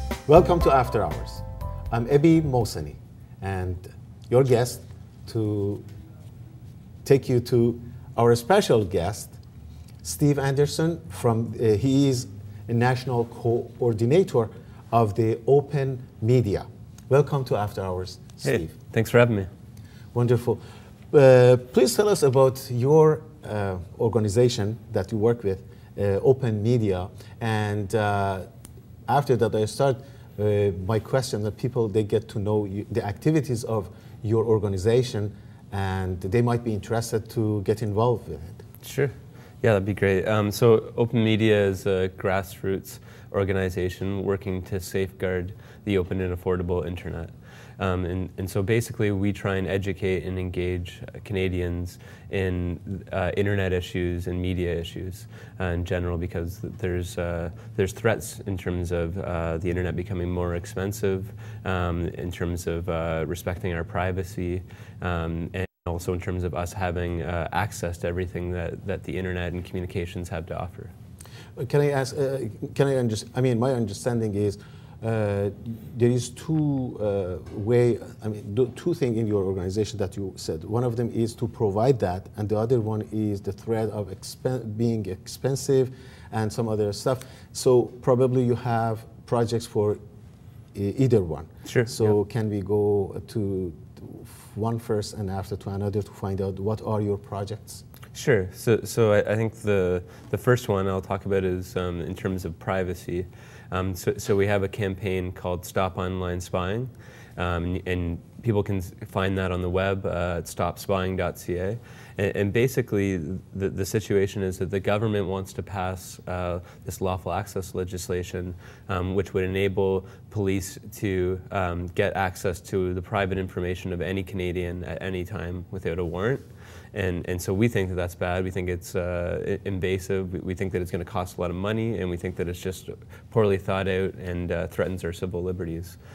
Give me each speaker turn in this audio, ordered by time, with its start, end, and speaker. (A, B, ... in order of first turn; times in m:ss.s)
0:00.2-0:05.8 A
0:07.0-0:09.4 A
0:10.0-0:18.7 A
0:18.4-0:19.5 B
0:20.1-0:28.4 A
0:29.1-0:38.6 A
0:38.8-1:10.9 B
1:11.6-1:30.0 A
1:30.7-1:37.8 A
1:31.6-1:32.1 B
1:38.1-2:16.0 B